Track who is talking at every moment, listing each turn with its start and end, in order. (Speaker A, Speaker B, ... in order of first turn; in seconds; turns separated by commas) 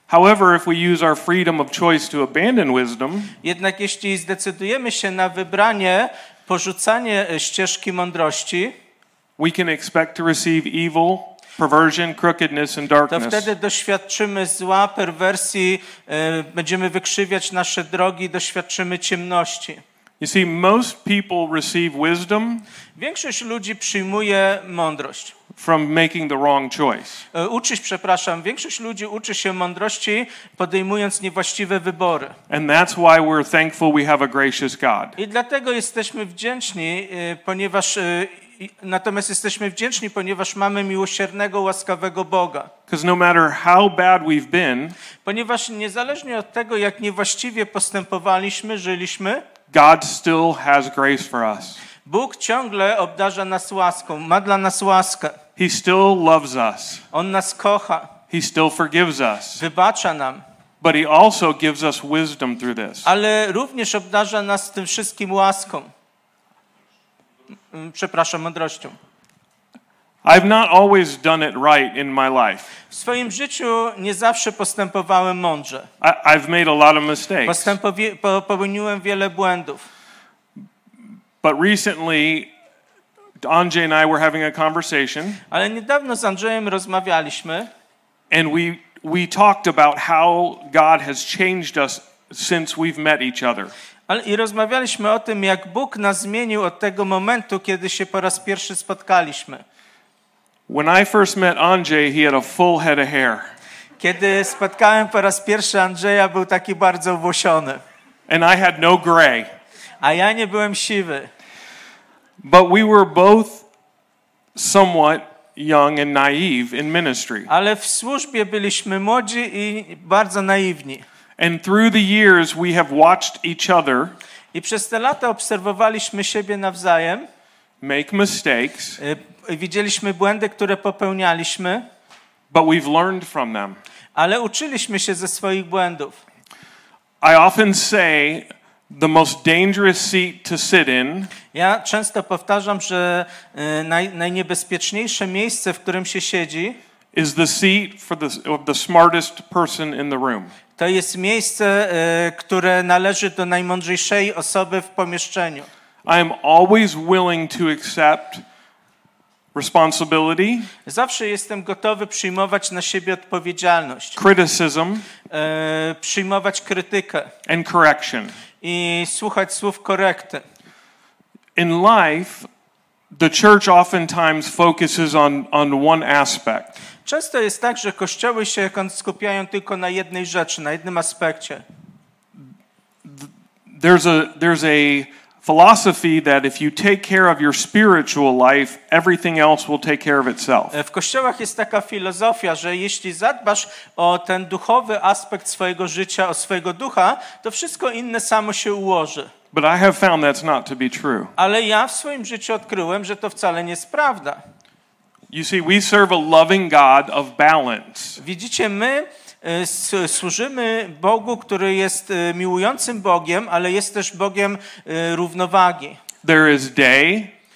Speaker A: 0.1-3.3, Speaker B: 3.4-8.8, Speaker A: 9.4-13.5, Speaker B: 13.1-19.8, Speaker A: 20.2-22.7, Speaker B: 23.0-25.4, Speaker A: 25.6-27.2, Speaker B: 27.3-32.4, Speaker A: 32.5-35.2, Speaker B: 35.2-42.7, Speaker A: 42.9-45.0, Speaker B: 45.2-49.4, Speaker A: 49.7-51.8, Speaker B: 52.0-55.4, Speaker A: 55.6-57.0, Speaker B: 57.1-58.1, Speaker A: 58.3-59.6, Speaker B: 59.6-60.4, Speaker A: 60.8-63.1, Speaker B: 63.0-65.9, Speaker B: 67.7-69.0, Speaker A: 70.2-72.7, Speaker B: 72.9-75.9, Speaker A: 76.0-77.7, Speaker B: 77.5-79.9, Speaker A: 81.4-82.5, Speaker A: 83.4-85.4, Speaker B: 85.5-87.7, Speaker A: 88.3-93.7, Speaker B: 94.1-99.6, Speaker A: 100.7-103.5, Speaker B: 104.0-107.8, Speaker A: 108.3-109.5, Speaker B: 110.0-111.3, Speaker A: 112.4-113.7, Speaker A: 114.5-117.5, Speaker B: 117.5-121.0, Speaker A: 121.4-124.2, Speaker B: 124.5-127.3, Speaker A: 127.8-129.0, Speaker B: 129.0-131.9, Speaker A: 132.5-133.8, Speaker B: 134.2-136.2, Speaker A: 137.2-141.3, Speaker B: 141.5-146.8, Speaker A: 147.1-150.5, Speaker B: 150.8-155.7, Speaker A: 156.1-158.4, Speaker A: 159.6-160.7, Speaker B: 160.8-164.2, Speaker A: 164.2-165.1, Speaker B: 165.3-167.3, Speaker A: 167.5-168.3, Speaker B: 168.6-170.4, Speaker A: 171.6-172.5, Speaker A: 173.1-176.8, Speaker B: 177.1-181.6, Speaker A: 183.0-190.7, Speaker B: 190.7-199.3, Speaker A: 199.5-201.3, Speaker B: 201.4-204.4, Speaker A: 205.3-208.2, Speaker B: 208.2-216.0, Speaker A: 216.2-217.3